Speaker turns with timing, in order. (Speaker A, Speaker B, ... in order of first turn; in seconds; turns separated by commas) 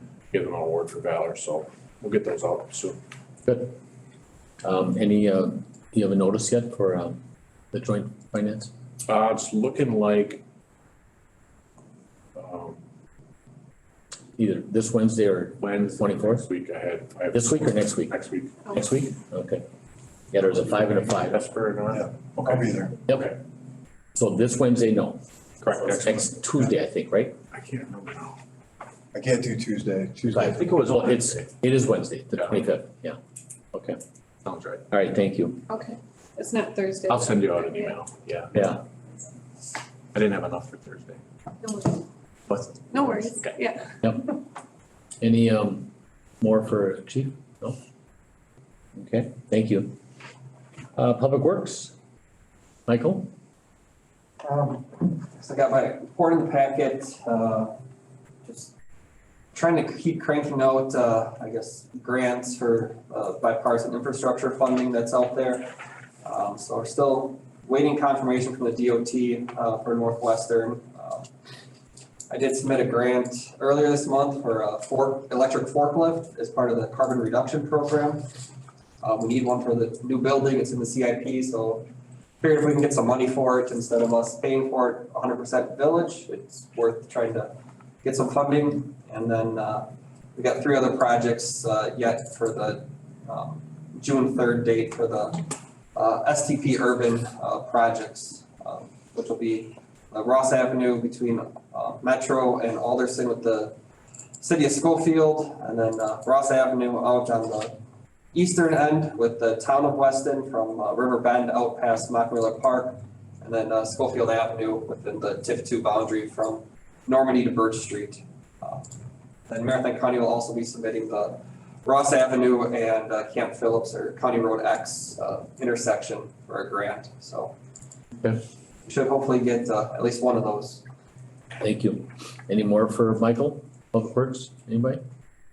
Speaker A: 0.3-3.0, Speaker B: 3.4-3.8, Speaker B: 4.6-7.2, Speaker B: 7.7-8.7, Speaker A: 9.1-10.4, Speaker A: 12.3-12.8, Speaker B: 14.3-16.5, Speaker A: 15.6-18.8, Speaker B: 17.3-18.2, Speaker B: 18.7-19.6, Speaker B: 20.3-21.4, Speaker A: 20.6-23.3, Speaker C: 21.9-22.9, Speaker B: 23.1-23.4, Speaker B: 24.1-25.2, Speaker A: 25.6-26.4, Speaker B: 25.9-27.3, Speaker A: 27.5-28.4, Speaker C: 29.1-30.6, Speaker B: 30.3-33.2, Speaker A: 30.5-31.5, Speaker B: 33.7-34.0, Speaker A: 34.4-34.8, Speaker B: 34.9-35.6, Speaker D: 35.7-38.0, Speaker A: 37.1-38.8, Speaker B: 38.5-38.8, Speaker A: 40.1-41.2, Speaker D: 41.6-42.0, Speaker A: 42.5-43.6, Speaker D: 42.9-43.8, Speaker B: 44.0-44.3, Speaker B: 45.2-47.8, Speaker B: 49.0-50.0, Speaker B: 50.9-51.9, Speaker B: 52.9-53.3, Speaker E: 54.4-57.7, Speaker E: 58.4-58.7, Speaker E: 59.5-65.7, Speaker E: 66.2-71.3, Speaker E: 72.3-78.2, Speaker E: 79.0-81.9, Speaker E: 82.4-87.5, Speaker E: 88.0-103.7, Speaker E: 104.4-107.7, Speaker E: 108.3-118.8, Speaker E: 119.5-127.5, Speaker E: 128.8-130.8, Speaker B: 131.6-135.0